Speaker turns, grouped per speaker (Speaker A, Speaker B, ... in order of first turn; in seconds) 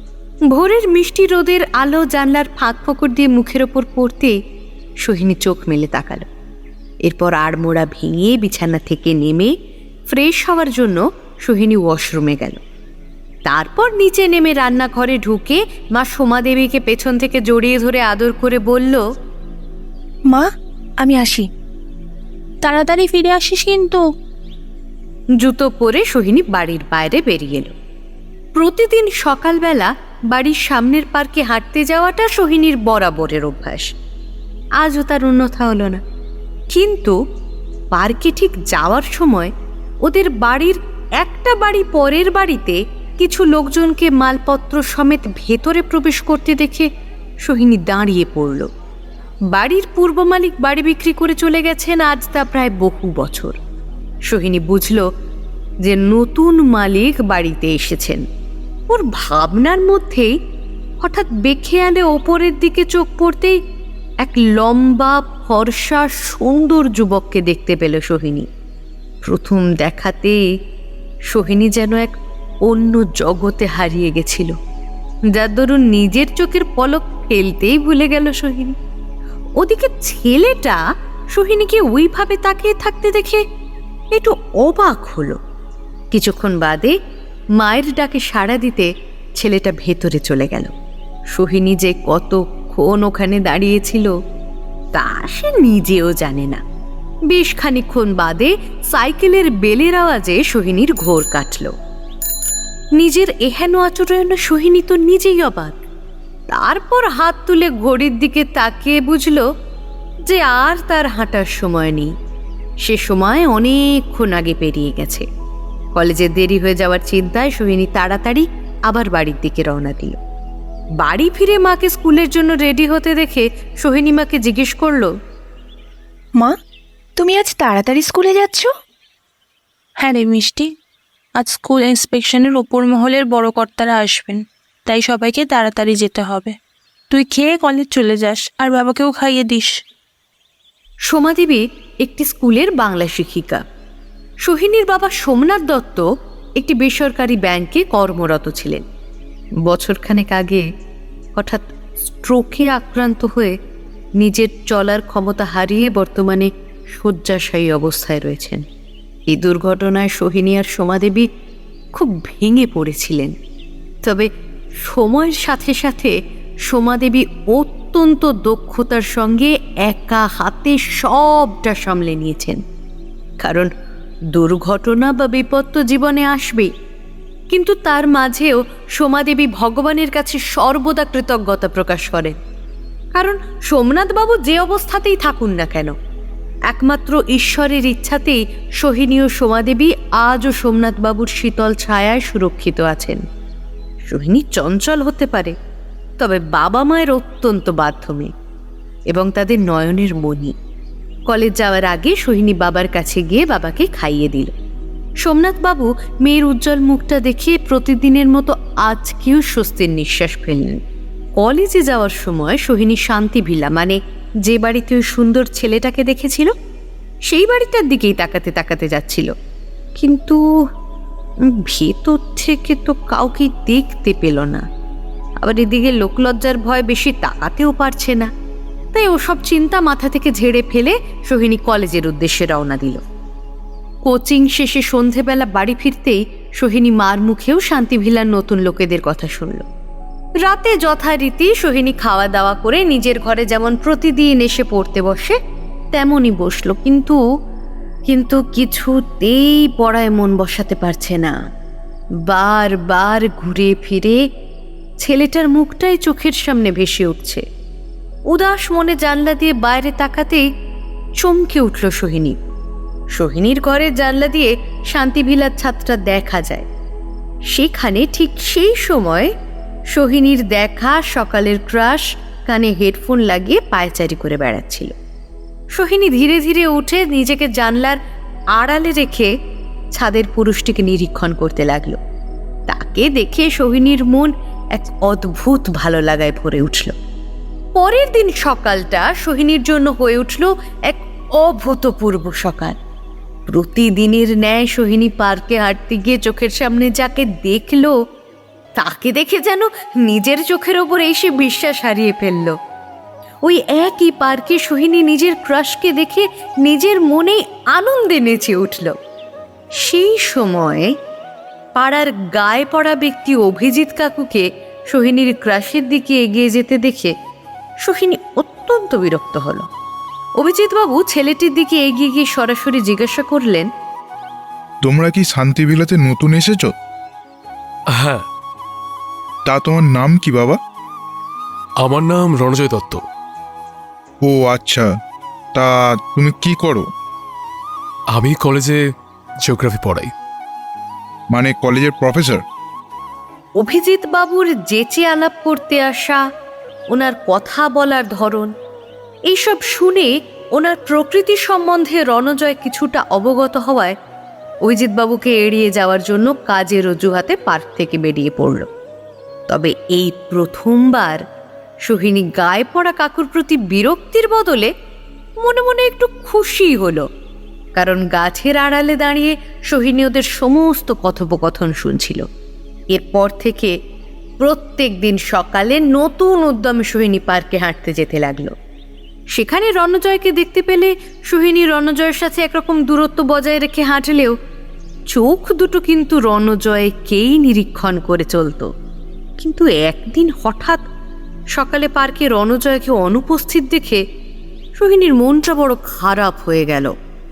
Speaker A: 0.5-4.3, 5.0-6.3, 7.0-9.5, 10.1-12.6, 13.5-19.0, 25.4-27.7, 28.6-33.9, 34.8-36.0, 36.7-37.2, 37.9-39.5, 40.0-46.9, 47.4-48.7, 49.5-53.6, 54.3-55.0, 55.8-58.2, 58.9-60.4, 61.0-63.6, 64.2-68.5, 69.2-70.4, 71.3-72.2, 72.7-74.5, 75.3-78.8, 79.6-80.8, 81.3-83.4, 84.1-85.4, 86.1-87.0, 87.6-90.7, 91.3-94.1, 95.0-96.6, 97.3-101.7, 103.0-105.8, 106.5-109.5, 110.2-112.1, 112.8-115.3, 116.0-120.2, 121.0-125.1, 141.1-143.6, 144.4-146.0, 146.6-148.8, 149.7-150.7, 151.4-153.6, 154.2-158.6, 159.3-161.3, 161.9-163.4, 164.0-164.3, 164.8-166.2, 166.7-172.6, 173.4-173.7, 174.3-176.7, 177.5-182.4, 183.2-185.9, 186.7-193.2, 194.1-195.6, 196.2-198.3, 199.1-200.6, 201.3-204.5, 205.2-210.8, 211.4-216.5, 217.3-219.3, 220.0-220.4, 221.5-224.6, 225.4-228.3, 228.9-233.0, 234.1-239.7, 240.4-245.4, 245.9-247.2, 248.1-251.4, 252.3-254.2, 255.0-257.4, 258.3-260.5, 261.2-262.4, 263.1-266.7, 267.5-269.3, 269.9-274.9, 275.8-278.0, 278.6-279.3, 279.9-282.0, 282.7-287.0, 287.8-292.8, 293.5-298.0, 298.8-302.6, 303.4-309.0, 309.7-310.9, 311.8-317.1, 317.8-319.7, 320.4-323.7, 343.6-346.2, 346.9-348.5, 349.3-354.0, 354.6-358.7, 359.5-361.2, 361.9-364.7, 365.4-367.1, 367.8-372.3, 372.9-373.8, 374.4-378.5, 379.3-384.4, 385.1-388.7, 389.4-390.9, 391.6-394.0, 394.8-396.9
Speaker B: 21.0-21.5, 127.2-128.7
Speaker C: 22.6-24.0, 130.0-130.7, 131.4-136.5, 137.1-139.7
Speaker D: 324.8-326.7, 329.5-330.6, 334.2-334.9, 335.6-336.9, 341.3-342.4
Speaker E: 327.9-328.2, 331.8-333.0, 338.1-338.8, 339.4-340.1